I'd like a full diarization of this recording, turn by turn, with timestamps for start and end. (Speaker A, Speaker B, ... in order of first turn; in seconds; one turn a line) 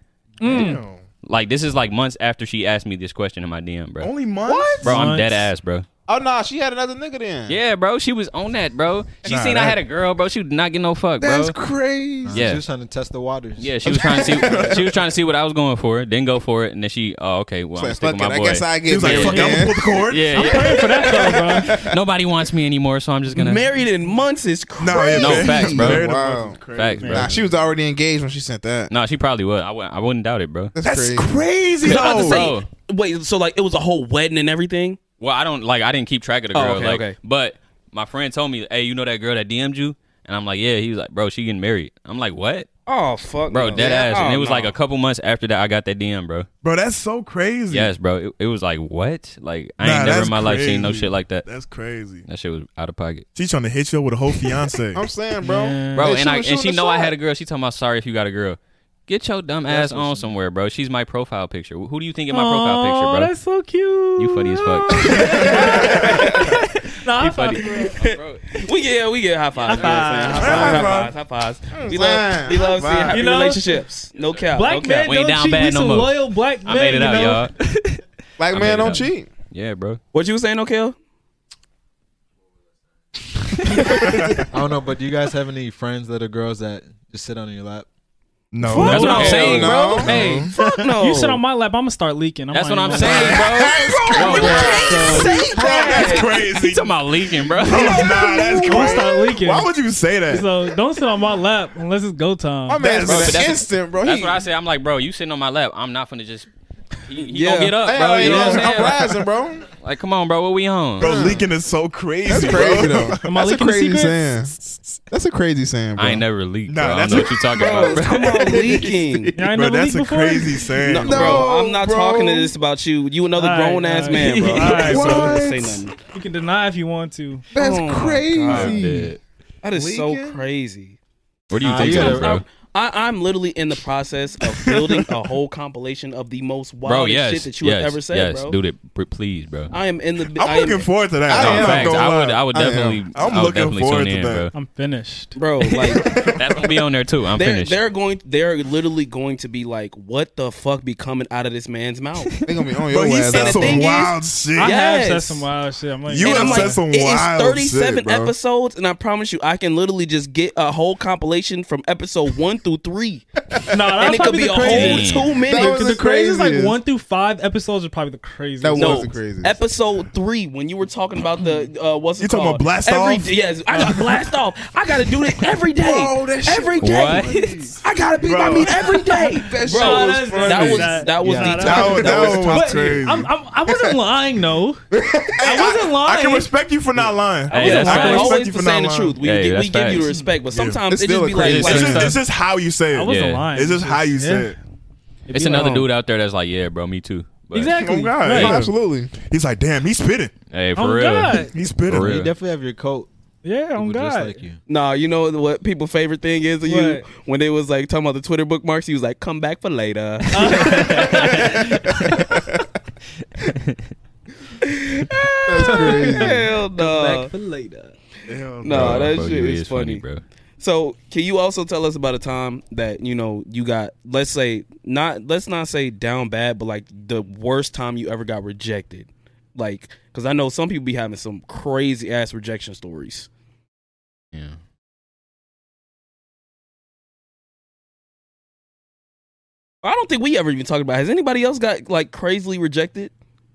Speaker A: 0.4-0.8
Speaker B: 0.4-1.0
Speaker C: 1.2-4.1
Speaker B: 4.0-4.9
Speaker D: 4.5-4.8
Speaker A: 4.8-5.5
Speaker C: 4.8-5.9
Speaker D: 6.1-7.6
Speaker C: 7.5-11.6
Speaker B: 9.2-9.8
Speaker D: 11.2-12.4
Speaker E: 12.2-13.8
Speaker C: 12.3-12.6
Speaker C: 13.6-23.7
Speaker D: 13.9-14.9
Speaker B: 14.2-14.8
Speaker D: 17.8-20.0
Speaker B: 18.9-20.5
Speaker A: 19.1-19.6
Speaker A: 20.3-21.8
Speaker D: 20.8-21.9
Speaker F: 23.4-25.2
Speaker B: 24.8-27.5
Speaker D: 24.9-28.9
Speaker C: 25.2-26.0
Speaker C: 26.7-27.3
Speaker A: 27.0-27.3
Speaker C: 28.9-30.8
Speaker D: 30.8-31.3
Speaker B: 30.8-32.5
Speaker F: 31.8-35.0
Speaker C: 31.9-32.7
Speaker C: 35.2-42.7
Speaker F: 36.5-37.2
Speaker F: 42.9-44.7
Speaker C: 43.5-46.5
Speaker B: 46.6-47.9
Speaker C: 47.7-51.5
Speaker B: 49.8-52.2
Speaker C: 52.3-53.3
Speaker B: 53.4-55.0
Speaker D: 54.9-57.1
Speaker A: 55.4-56.2
Speaker C: 56.0-63.3
Speaker E: 59.7-60.3
Speaker A: 62.3-67.8
Speaker C: 64.2-66.6
Speaker D: 65.2-66.0
Speaker F: 65.7-66.5
Speaker C: 67.2-68.5
Speaker F: 67.5-75.1
Speaker C: 69.7-70.9
Speaker A: 69.7-70.9
Speaker B: 70.4-71.1
Speaker D: 71.7-73.3
Speaker A: 73.1-73.8
Speaker A: 74.5-77.5
Speaker C: 75.0-80.0
Speaker D: 78.4-79.3
Speaker F: 80.1-81.0
Speaker E: 84.5-87.9
Speaker B: 88.5-90.5
Speaker D: 88.7-90.5
Speaker A: 88.7-93.5
Speaker C: 88.8-90.1
Speaker F: 89.1-89.4
Speaker F: 90.6-91.4
Speaker C: 92.5-98.0
Speaker B: 93.0-100.7
Speaker D: 93.0-96.3
Speaker A: 94.2-95.5
Speaker F: 95.1-96.3
Speaker A: 97.7-99.7
Speaker D: 97.8-99.2
Speaker A: 100.3-103.0
Speaker D: 102.7-104.4
Speaker B: 102.8-103.5
Speaker C: 103.0-106.5
Speaker C: 107.0-109.3
Speaker F: 107.2-108.6
Speaker D: 107.8-109.7
Speaker C: 109.8-111.3
Speaker B: 111.0-113.3
Speaker D: 111.0-111.5
Speaker D: 112.3-116.2
Speaker A: 113.2-114.3
Speaker C: 116.0-118.3
Speaker B: 116.7-118.8
Speaker D: 117.5-119.4
Speaker F: 117.6-119.3
Speaker A: 119.4-120.7
Speaker B: 119.4-121.5
Speaker F: 120.8-126.0
Speaker D: 121.0-122.5
Speaker A: 123.4-125.4
Speaker B: 124.7-125.7
Speaker D: 124.8-125.7
Speaker A: 126.0-127.5
Speaker D: 127.5-129.1
Speaker F: 127.5-128.8
Speaker C: 128.5-129.2
Speaker F: 129.6-131.0
Speaker D: 129.7-130.4
Speaker C: 131.5-132.4
Speaker E: 131.6-132.4
Speaker F: 131.8-138.6
Speaker C: 136.8-139.7
Speaker F: 139.7-140.8
Speaker B: 140.3-142.5
Speaker D: 141.3-143.0
Speaker C: 141.3-144.5
Speaker B: 143.1-144.5
Speaker A: 144.5-145.4
Speaker F: 145.3-146.1
Speaker D: 146.1-146.3
Speaker C: 146.2-147.8
Speaker F: 147.4-152.4
Speaker D: 152.4-154.0
Speaker B: 152.9-154.8
Speaker F: 153.3-155.5
Speaker A: 154.6-156.8
Speaker B: 156.1-158.3
Speaker F: 156.2-163.3
Speaker D: 163.6-164.1
Speaker A: 163.7-169.1
Speaker F: 164.0-165.8
Speaker C: 164.5-165.3
Speaker D: 165.4-166.8
Speaker D: 168.6-169.6
Speaker F: 168.8-177.3
Speaker B: 172.2-173.3
Speaker A: 173.7-174.0
Speaker D: 175.8-177.8
Speaker B: 175.9-179.0
Speaker C: 176.8-177.7
Speaker F: 177.8-183.0
Speaker D: 178.6-181.1
Speaker A: 179.6-184.8
Speaker E: 181.2-181.7
Speaker B: 181.5-183.3
Speaker D: 181.7-182.5
Speaker D: 183.7-183.9
Speaker D: 184.9-185.7
Speaker A: 185.4-186.5
Speaker B: 185.4-189.2
Speaker C: 187.5-188.4
Speaker A: 187.6-188.3
Speaker F: 187.6-192.2
Speaker C: 189.2-190.0
Speaker A: 189.9-190.3
Speaker B: 190.5-190.8
Speaker D: 190.9-192.2
Speaker C: 191.4-192.2
Speaker B: 191.4-194.6
Speaker A: 192.9-194.6
Speaker C: 193.1-193.5
Speaker A: 195.3-195.9
Speaker C: 195.3-197.8
Speaker A: 197.5-198.7
Speaker B: 197.8-200.3
Speaker D: 197.9-199.1
Speaker C: 200.5-202.3
Speaker A: 200.8-201.6
Speaker B: 201.5-202.1
Speaker E: 201.9-203.1
Speaker A: 203.4-204.4
Speaker E: 203.8-204.6
Speaker F: 204.7-211.3
Speaker A: 206.6-207.1
Speaker A: 210.3-211.9
Speaker C: 210.4-212.1
Speaker C: 213.5-213.8
Speaker F: 214.6-217.3
Speaker D: 215.5-216.4
Speaker A: 215.6-218.0
Speaker B: 218.3-219.3
Speaker F: 218.6-220.0
Speaker C: 218.7-220.2
Speaker F: 220.6-233.3
Speaker C: 234.3-234.6
Speaker F: 239.8-243.1